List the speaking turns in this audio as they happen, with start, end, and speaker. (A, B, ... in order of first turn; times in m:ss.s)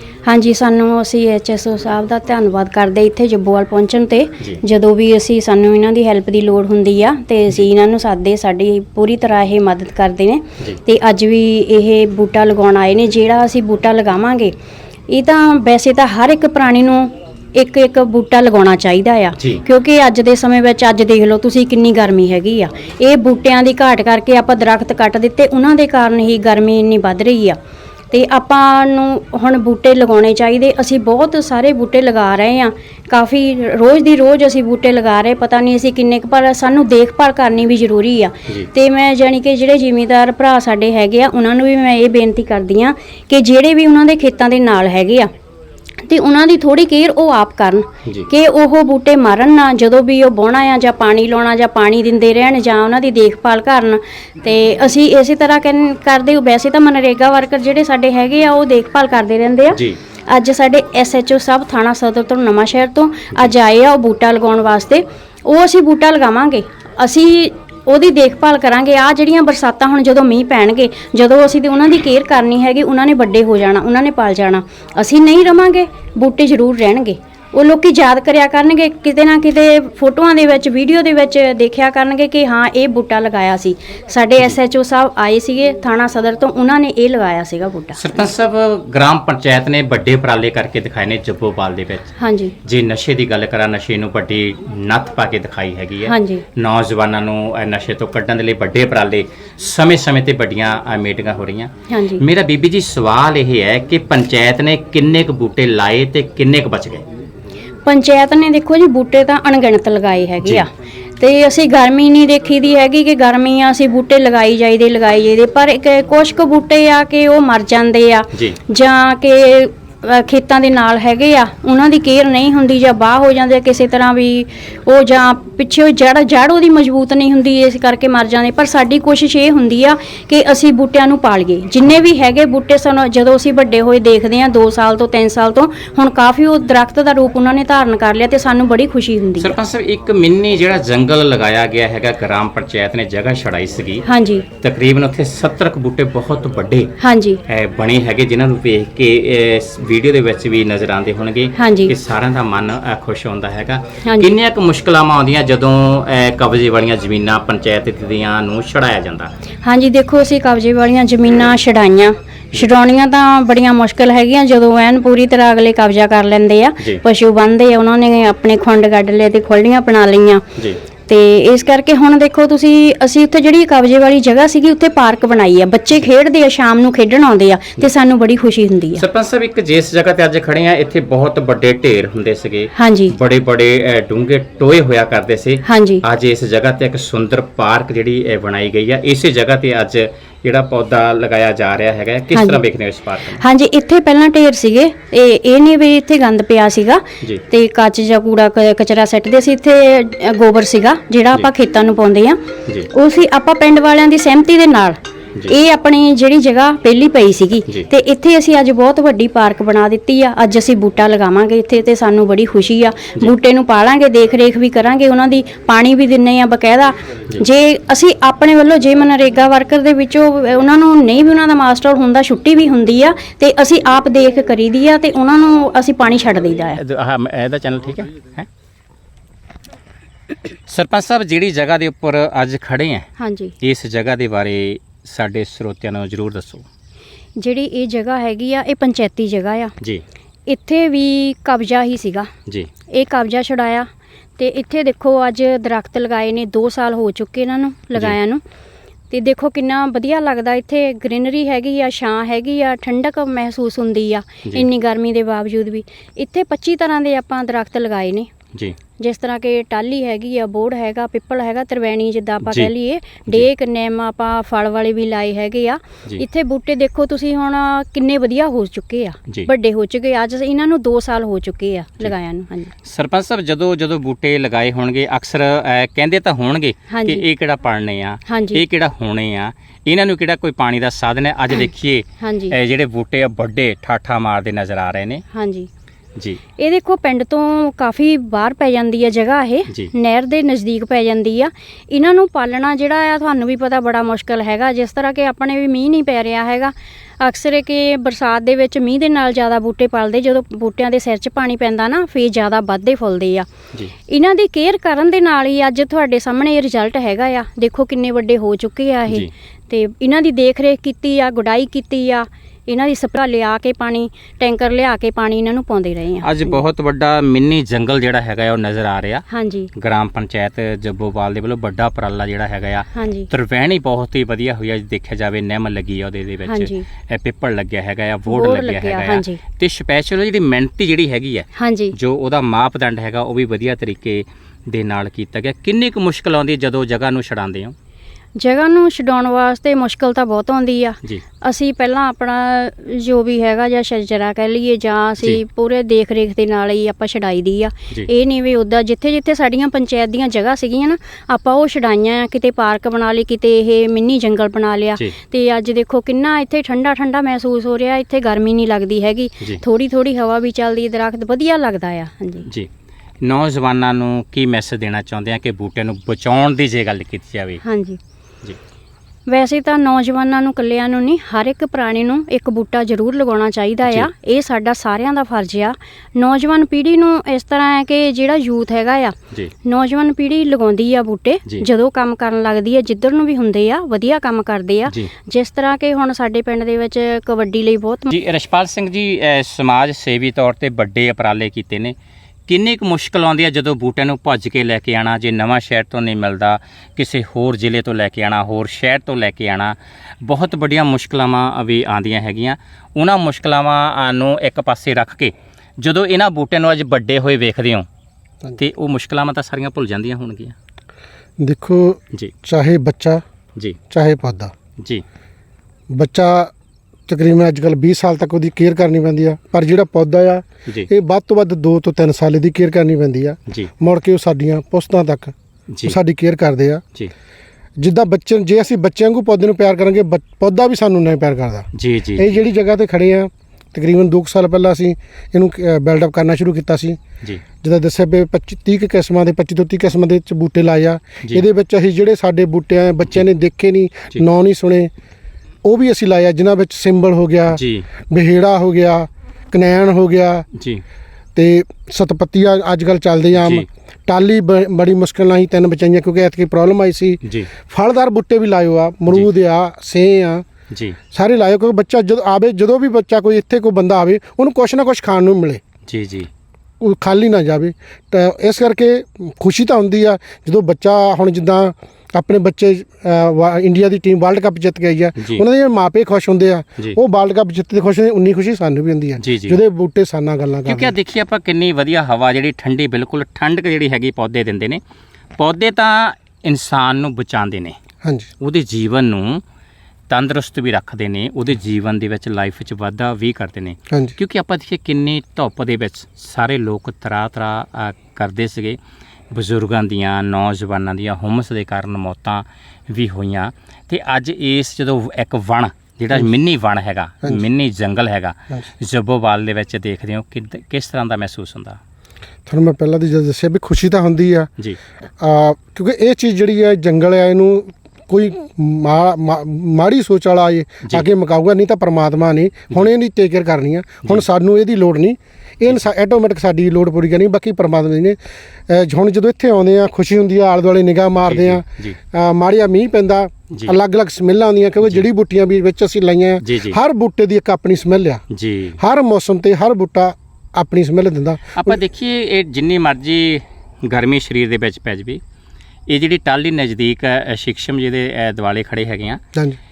0:00.2-0:14.5 A
0:15.1-0:27.6 A
0:19.4-0:19.6 B
0:28.1-0:45.3 A
0:46.0-1:28.2 A
0:59.7-1:00.0 B
1:28.0-1:32.1 B
1:32.2-1:32.6 A
1:32.6-1:47.0 B
1:36.0-1:36.4 A
1:41.9-1:42.2 A
1:47.8-2:19.6 A
1:58.3-1:58.6 B
2:19.4-2:24.0 B
2:24.0-2:24.5 A
2:24.6-2:27.0 B
2:27.0-2:27.4 A
2:27.5-2:39.3 B
2:31.6-2:31.9 A
2:34.0-2:34.3 A
2:39.6-2:50.4 A
2:51.1-2:59.0 A
2:59.0-3:13.4 B
3:02.8-3:03.1 A
3:05.6-3:06.0 A
3:12.3-3:12.6 A
3:13.4-3:22.4 A
3:22.9-3:46.8 A
3:46.8-3:48.5 B
3:50.7-3:53.1 B
3:53.2-3:53.5 A
3:53.6-3:56.6 B
3:57.4-3:59.7 A
4:00.5-4:02.3 A
4:02.9-4:03.9 A
4:04.4-4:08.4 A
4:09.1-4:18.3 A
4:19.0-4:32.7 A
4:22.4-4:22.7 B
4:32.8-4:45.2 B
4:36.9-4:37.2 A
4:38.3-4:38.6 A
4:42.2-4:42.5 A
4:45.3-4:45.7 A
4:46.6-5:03.5 A
5:04.1-5:16.6 A
5:09.1-5:09.3 B
5:16.2-5:19.2 B
5:19.3-5:19.7 A
5:19.8-5:37.7 B
5:22.9-5:23.3 A
5:26.5-5:26.8 A
5:28.3-5:29.4 A
5:31.6-5:32.0 A
5:38.4-6:02.5 A
6:03.2-6:07.6 B
6:07.6-6:08.0 A
6:09.3-6:28.1 A
6:28.1-6:32.0 B
6:32.5-6:47.9 B
6:48.6-6:50.5 B
6:51.4-6:53.2 C
6:53.9-6:54.5 C
6:55.9-6:56.5 C
6:57.1-7:05.3 C
7:05.7-7:06.0 B
7:05.8-7:06.8 C
7:07.8-7:17.0 C
7:11.7-7:12.4 B
7:17.6-7:24.9 C
7:25.6-7:30.5 C
7:27.5-7:27.9 B
7:30.5-7:30.8 B
7:31.3-7:40.4 C
7:33.3-7:33.6 B
7:37.2-7:37.5 B
7:40.7-7:41.0 B
7:41.1-7:45.6 C
7:45.8-7:46.3 B
7:46.8-8:00.9 C
7:55.2-7:55.4 B
7:59.2-7:59.6 B
8:00.6-8:04.8 B
8:05.4-8:07.8 B
8:08.0-8:08.3 C
8:08.4-8:09.4 B
8:10.1-8:18.8 B
8:19.3-8:31.8 B
8:32.5-8:34.5 C
8:35.2-8:48.2 C
8:48.7-8:58.2 C
8:51.3-8:52.0 B
8:56.4-8:56.8 B
8:58.3-8:58.8 B
8:58.8-9:01.8 C
9:01.6-9:05.2 B
9:05.9-9:09.2 B